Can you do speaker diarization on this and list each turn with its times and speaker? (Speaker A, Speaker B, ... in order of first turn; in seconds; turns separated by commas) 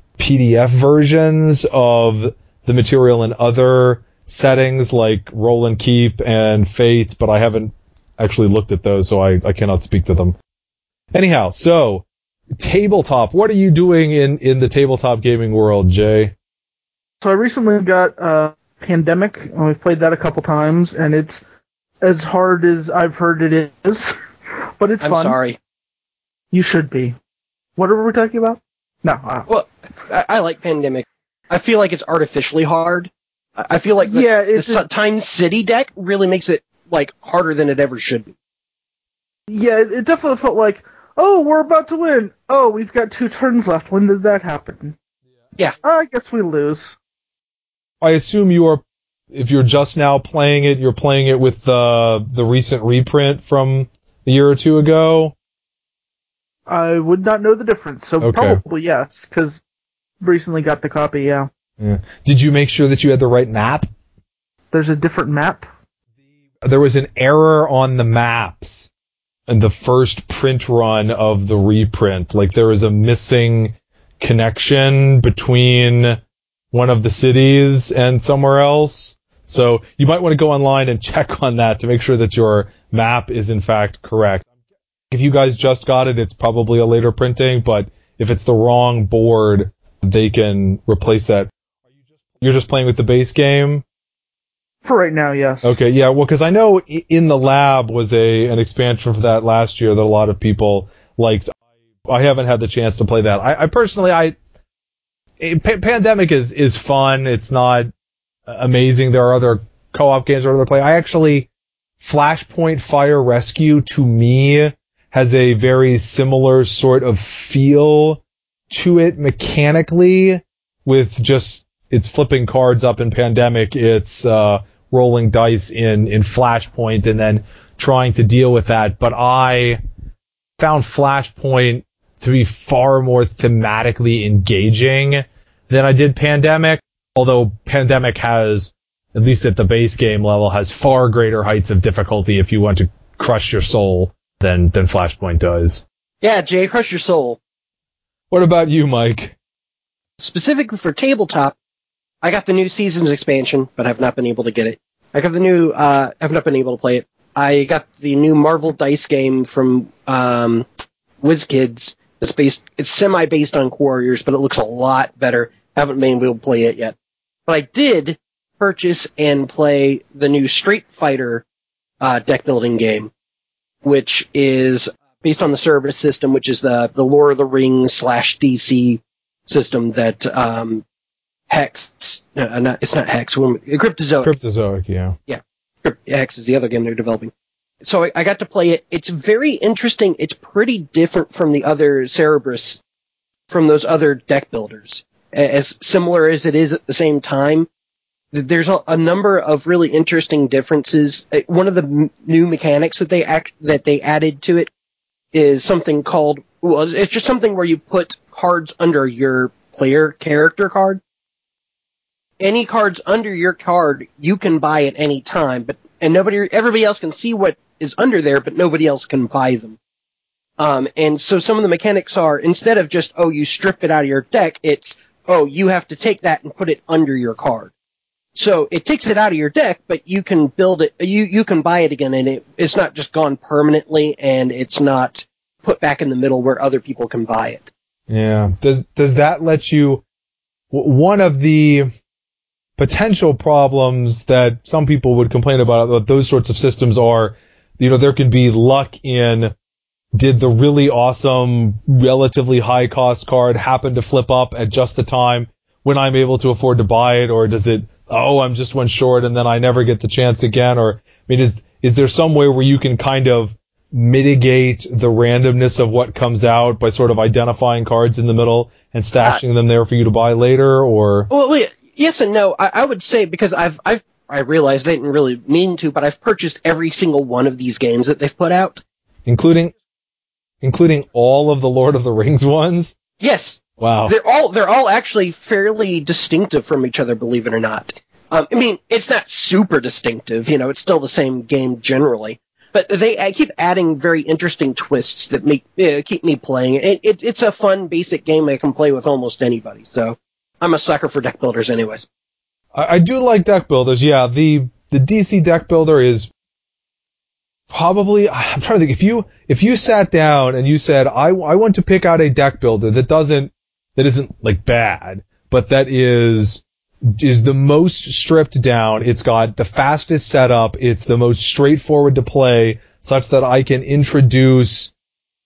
Speaker A: 0.2-10.3, Speaker A: 11.1-16.3, Speaker B: 17.2-21.4, Speaker B: 22.0-24.2, Speaker B: 24.8-25.4, Speaker C: 25.0-25.6, Speaker B: 26.5-27.2, Speaker B: 27.8-29.5, Speaker C: 29.5-38.3, Speaker B: 34.0-34.8, Speaker B: 39.5-45.0, Speaker B: 45.8-47.0, Speaker A: 48.0-55.3, Speaker B: 56.7-59.6, Speaker A: 58.2-58.6, Speaker B: 60.2-61.5, Speaker A: 61.8-63.9, Speaker B: 64.7-65.7, Speaker A: 66.6-68.9, Speaker A: 69.5-76.2, Speaker A: 76.7-84.4, Speaker A: 85.1-91.5, Speaker A: 92.4-93.8, Speaker B: 94.8-95.8, Speaker A: 95.6-101.5, Speaker A: 102.1-104.3, Speaker A: 105.4-107.9, Speaker A: 108.5-111.5, Speaker A: 112.0-129.8, Speaker A: 130.6-145.8, Speaker C: 146.2-147.4, Speaker A: 148.3-149.3, Speaker C: 150.2-151.6, Speaker C: 152.2-160.7, Speaker C: 161.2-166.9, Speaker C: 167.5-171.4, Speaker C: 172.0-173.1, Speaker C: 173.8-180.8, Speaker C: 181.5-184.3, Speaker A: 184.2-185.2, Speaker C: 185.3-192.8, Speaker C: 193.5-197.7, Speaker C: 198.3-204.7, Speaker C: 205.3-211.0, Speaker C: 212.4-219.8, Speaker C: 220.6-227.7, Speaker C: 228.3-237.7, Speaker A: 238.1-240.0, Speaker A: 240.7-241.9, Speaker A: 242.8-249.5, Speaker A: 250.1-271.3, Speaker C: 271.3-278.8, Speaker A: 279.2-279.7, Speaker A: 280.6-282.9, Speaker C: 283.2-302.1, Speaker A: 283.8-284.1, Speaker A: 302.7-306.3, Speaker A: 307.7-324.9